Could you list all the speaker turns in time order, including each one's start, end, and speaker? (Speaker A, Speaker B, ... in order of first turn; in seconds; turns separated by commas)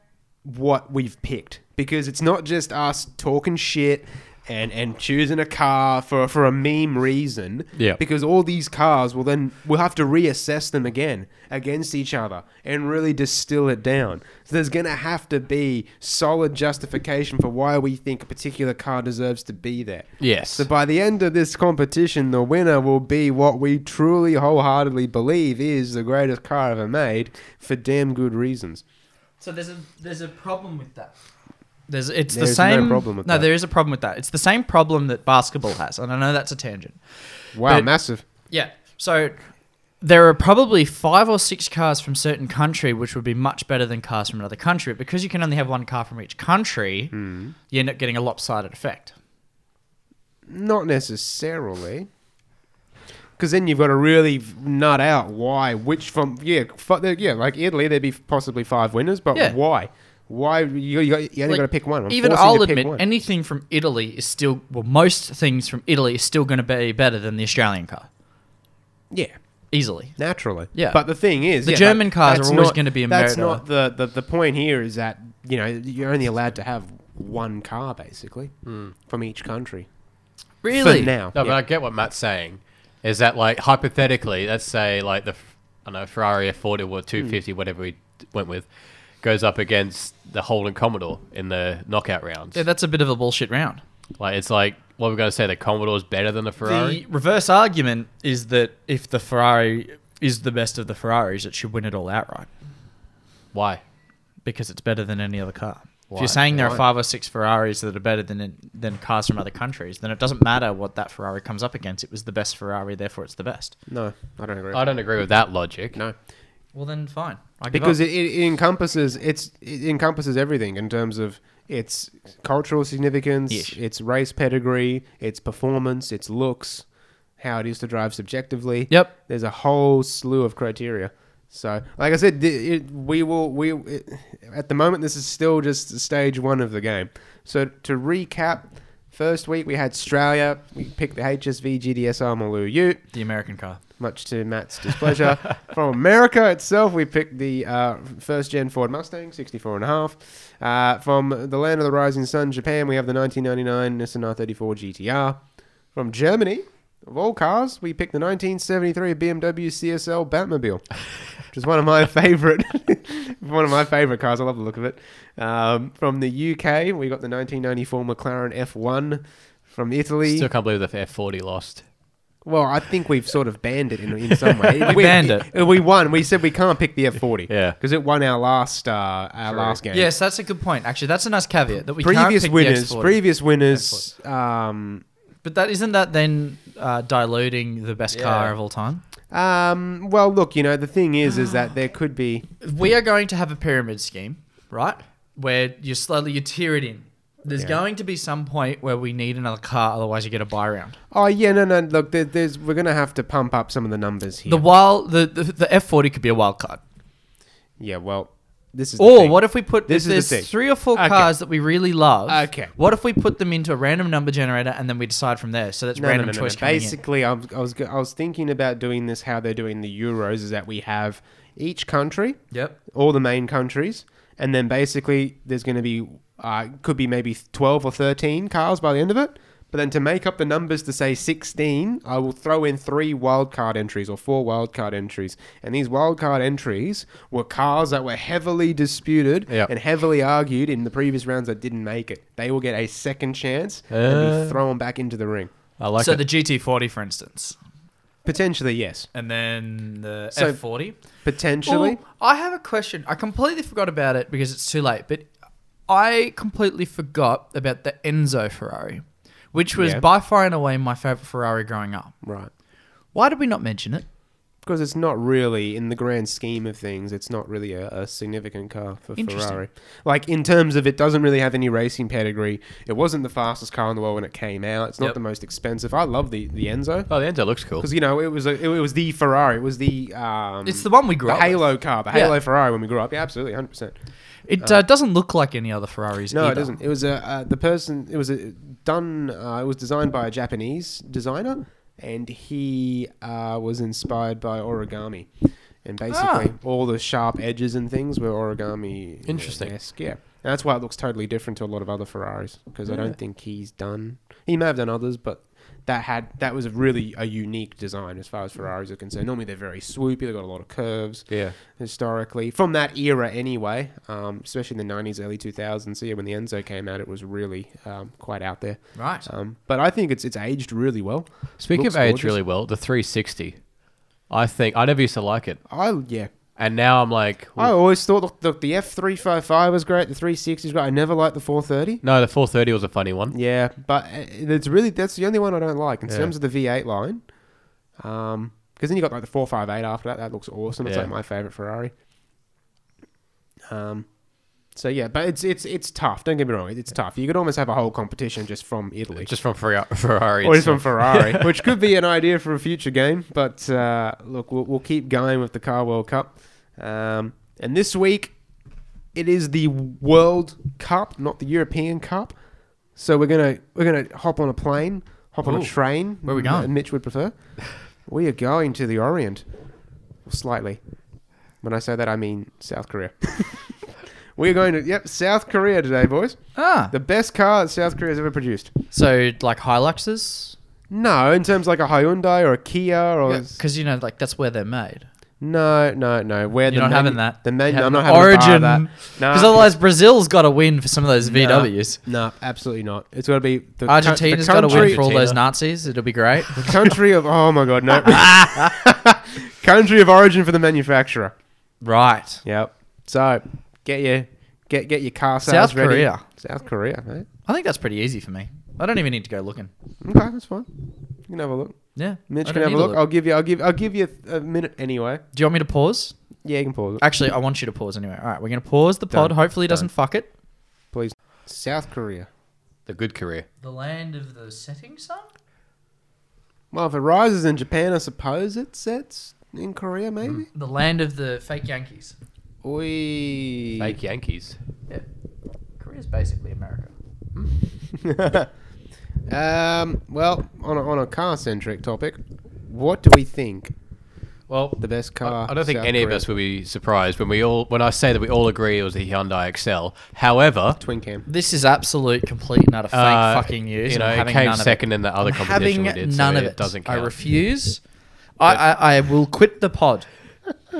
Speaker A: 0.4-28.8, Speaker B: 20.2-20.7, Speaker C: 29.4-31.1, Speaker C: 31.9-37.0, Speaker A: 32.3-33.5, Speaker A: 37.5-38.2, Speaker C: 37.6-37.9, Speaker C: 38.5-39.4, Speaker C: 40.0-47.1, Speaker A: 47.1-47.5, Speaker C: 47.7-49.1, Speaker A: 50.5-52.1, Speaker A: 53.4-63.0, Speaker C: 61.5-68.1, Speaker A: 69.1-69.4, Speaker C: 69.7-70.2, Speaker A: 70.2-79.9, Speaker C: 70.7-71.0, Speaker C: 71.6-73.6, Speaker B: 78.7-78.9, Speaker C: 80.6-81.1, Speaker A: 80.7-81.6, Speaker B: 81.3-88.7, Speaker B: 89.2-92.6, Speaker C: 92.5-93.8, Speaker B: 94.2-97.0, Speaker C: 96.6-102.5, Speaker B: 103.5-103.8, Speaker C: 104.4-113.7, Speaker B: 106.1-106.8, Speaker A: 113.9-114.9, Speaker B: 114.7-116.0, Speaker C: 116.7-118.0, Speaker A: 117.7-126.8, Speaker C: 123.5-123.8, Speaker A: 127.4-143.0, Speaker C: 143.1-143.8, Speaker A: 144.0-155.4, Speaker A: 155.9-170.5, Speaker B: 170.3-171.8, Speaker A: 172.4-180.1, Speaker C: 174.8-175.5, Speaker B: 177.5-177.8, Speaker B: 179.4-179.8, Speaker C: 179.9-184.0, Speaker A: 182.0-185.0, Speaker C: 185.4-189.0, Speaker B: 188.1-188.5, Speaker A: 189.3-192.4, Speaker C: 192.6-200.9, Speaker A: 197.5-197.8, Speaker A: 201.1-204.6, Speaker C: 204.5-206.8, Speaker A: 207.8-211.3, Speaker C: 209.0-217.0, Speaker A: 212.3-212.7, Speaker A: 215.9-245.5, Speaker C: 222.5-222.8, Speaker B: 243.9-244.6, Speaker B: 245.8-246.2, Speaker C: 246.0-247.6, Speaker A: 248.2-249.1, Speaker C: 249.1-251.0, Speaker A: 250.3-252.0, Speaker C: 251.6-255.3, Speaker C: 255.9-262.1, Speaker A: 259.8-260.0, Speaker A: 262.2-262.5, Speaker C: 263.1-264.0, Speaker A: 264.6-277.1, Speaker C: 269.2-269.6, Speaker B: 277.1-277.9, Speaker A: 277.8-283.9, Speaker C: 280.6-282.3, Speaker C: 284.5-286.8, Speaker A: 286.3-295.3, Speaker A: 295.8-322.4, Speaker C: 296.1-296.5, Speaker B: 299.2-299.7, Speaker B: 311.3-311.6, Speaker C: 318.9-319.3, Speaker B: 321.6-323.6, Speaker B: 324.3-325.6, Speaker A: 325.7-326.3, Speaker B: 326.6-327.7, Speaker A: 327.6-332.0, Speaker B: 332.0-333.4, Speaker A: 333.3-337.2, Speaker B: 336.1-336.3, Speaker A: 338.0-341.9, Speaker B: 340.8-341.1, Speaker A: 343.7-344.1, Speaker A: 344.7-349.3, Speaker B: 349.2-351.6, Speaker A: 350.4-358.3, Speaker A: 359.1-362.4, Speaker A: 362.9-367.3, Speaker C: 365.4-366.7, Speaker A: 368.1-369.4, Speaker A: 370.2-370.8, Speaker A: 371.6-373.7, Speaker A: 374.4-378.7, Speaker C: 376.6-376.9, Speaker C: 378.9-380.6, Speaker A: 380.9-383.6, Speaker C: 383.2-385.1, Speaker A: 385.4-389.6, Speaker C: 386.7-392.0, Speaker A: 391.2-395.0, Speaker C: 393.9-396.7, Speaker B: 394.7-395.4, Speaker A: 396.6-401.3, Speaker C: 398.1-398.7, Speaker C: 401.8-402.4, Speaker A: 402.4-407.3, Speaker C: 405.4-406.2, Speaker C: 407.5-409.7, Speaker A: 410.0-410.7, Speaker A: 411.3-411.8, Speaker C: 411.9-413.0, Speaker A: 412.3-415.2, Speaker C: 415.3-416.1, Speaker A: 416.4-417.0, Speaker C: 417.0-420.3, Speaker A: 419.1-419.9, Speaker A: 420.9-422.3, Speaker B: 422.9-423.4, Speaker C: 423.6-425.3, Speaker A: 426.7-430.5, Speaker C: 430.5-432.1, Speaker A: 432.6-433.9, Speaker B: 433.8-434.6, Speaker C: 435.8-436.9, Speaker A: 437.9-438.5, Speaker A: 439.3-443.7, Speaker B: 444.5-450.8, Speaker A: 444.8-446.3, Speaker A: 450.8-451.2, Speaker C: 451.3-457.8, Speaker B: 452.9-457.1, Speaker C: 458.4-460.1